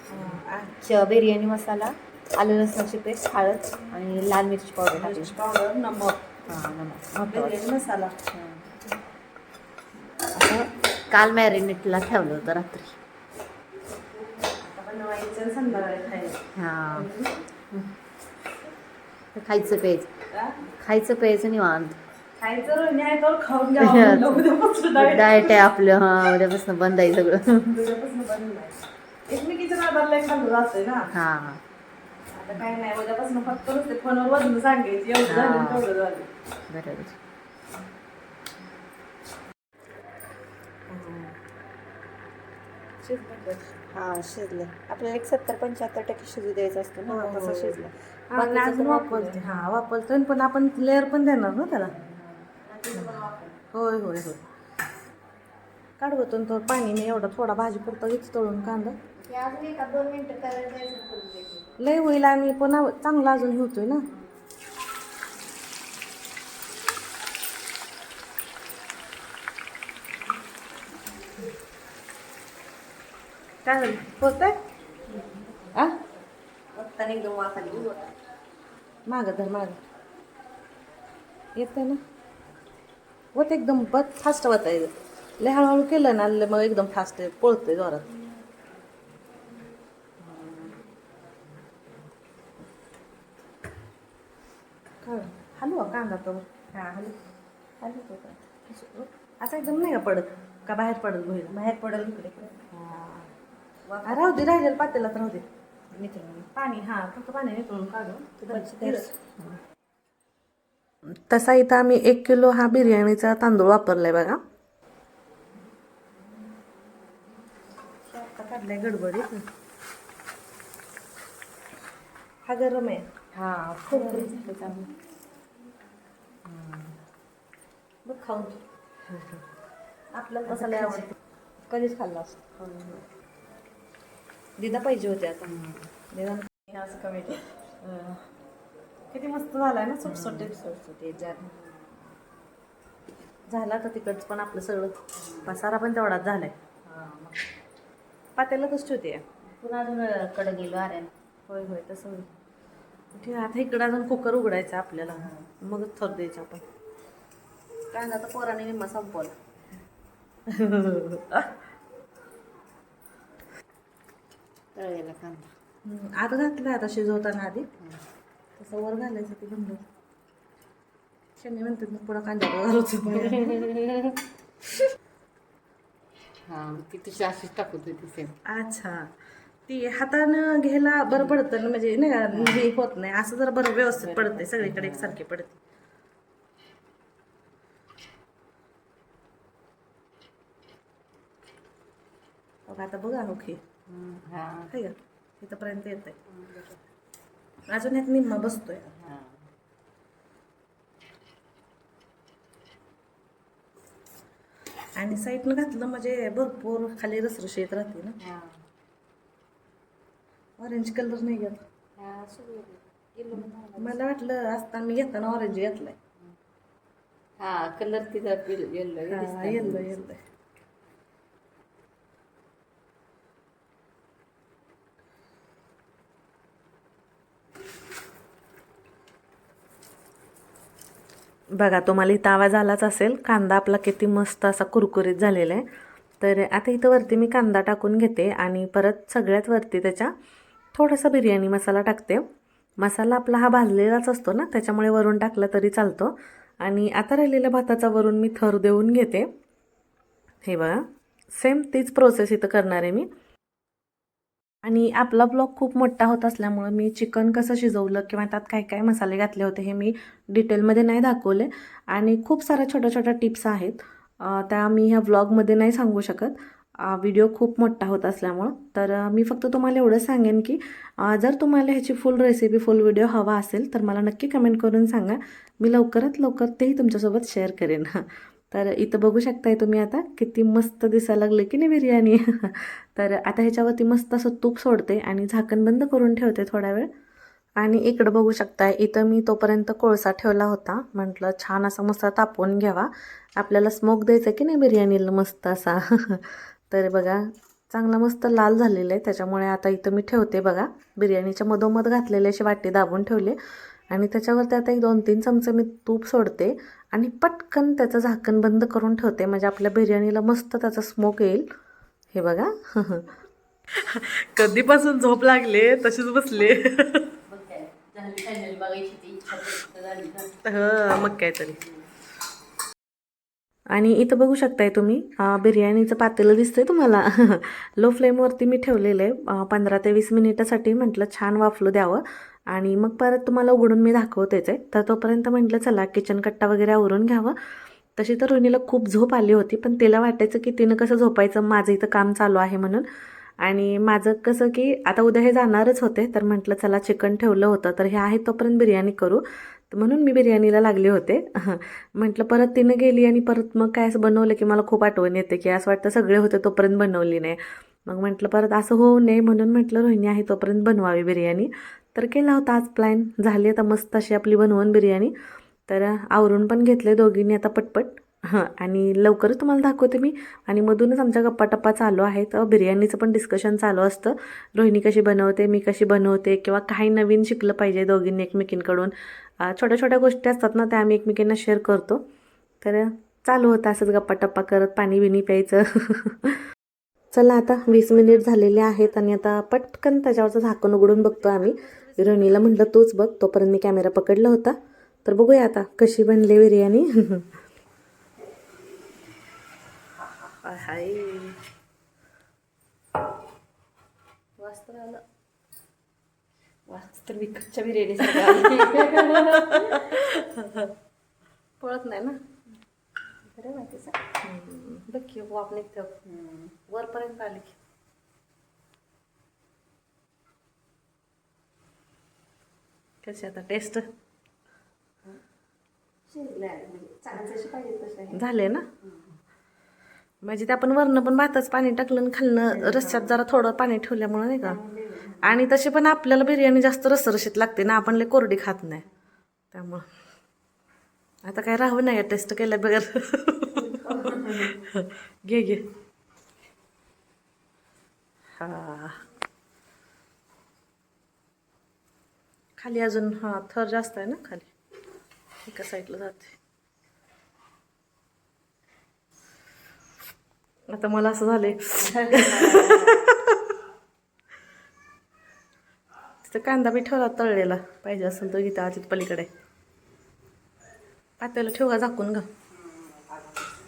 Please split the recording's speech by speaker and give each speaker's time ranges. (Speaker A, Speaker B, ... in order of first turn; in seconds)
Speaker A: 0.1-0.7, 5.0-6.3, 7.1-8.2, 14.3-16.4, 16.9-17.3, 22.4-25.6, 27.5-31.1, 32.3-36.3, 40.9-41.4, 43.0-43.7, 47.1-47.8, 48.3-51.9, 52.9-54.4, 56.0-59.0, 61.8-64.0, 73.7-74.6, 75.7-76.0, 79.1-79.8, 81.6-82.0, 83.3-88.1, 95.0-96.7, 98.7-101.6, 102.7-103.3, 104.0-109.1, 111.3-114.4, 118.1-119.4, 122.5-123.1, 123.9-124.4, 128.1-128.6, 130.2-131.1, 134.6-135.5, 136.1-138.2, 139.1-140.6, 143.5-146.6, 148.4-149.2, 151.5-152.3, 153.1-156.7, 157.9-159.3, 160.5-161.5, 165.8-167.7, 168.6-169.8, 171.4-173.7, 178.5-179.1, 179.7-185.6, 192.7-193.6, 194.7-196.2, 197.7-198.9, 205.0-208.2, 210.6-211.6, 213.8-216.0, 219.1-220.2, 231.6-235.7, 236.2-240.1, 240.7-242.2, 242.8-249.3, 250.5-250.8, 251.3-253.1, 254.6-286.9, 287.6-303.4, 303.9-311.5, 312.1-313.1, 313.8-317.1, 320.4-321.6, 323.8-337.4, 338.0-342.9, 343.4-365.1, 365.7-382.0, 382.6-386.4, 387.1-397.3, 400.4-401.4, 404.4-405.0, 408.0-410.7, 411.6-412.2, 414.2-415.9, 416.7-417.6, 423.0-423.9, 428.1-428.7, 430.2-434.6, 435.2-438.9, 439.5-439.9, 441.2-445.6, 448.4-449.0, 452.6-454.5, 455.4-456.4, 460.7-463.4, 466.2-469.3, 471.2-472.3
Speaker B: 0.8-5.4, 6.5-7.6, 8.3-8.7, 10.3-13.0, 16.6-17.1, 19.4-20.1, 20.7-22.0, 23.8-27.5, 31.1-31.6, 35.2-35.9, 36.7-37.2, 43.9-49.5, 52.0-53.6, 59.2-61.7, 76.8-78.1, 90.3-90.7, 96.8-97.1, 97.8-98.5, 101.5-102.6, 103.9-104.5, 108.4-109.4, 123.3-124.9, 126.5-127.0, 130.5-131.1, 131.7-133.0, 135.4-135.9, 140.1-141.5, 145.2-145.5, 146.9-147.4, 149.6-151.1, 155.0-155.5, 164.8-165.5, 173.1-174.2, 176.5-178.4, 181.1-181.4, 182.3-182.7, 183.9-185.2, 193.9-194.7, 196.3-196.8, 199.0-199.4, 208.2-208.6, 212.0-214.0, 217.4-219.9, 317.3-320.4, 406.7-410.1, 413.3-414.0, 416.1-416.5, 426.1-428.2, 432.5-433.2, 434.4-435.4, 443.7-444.6, 461.8-463.1, 472.6-473.3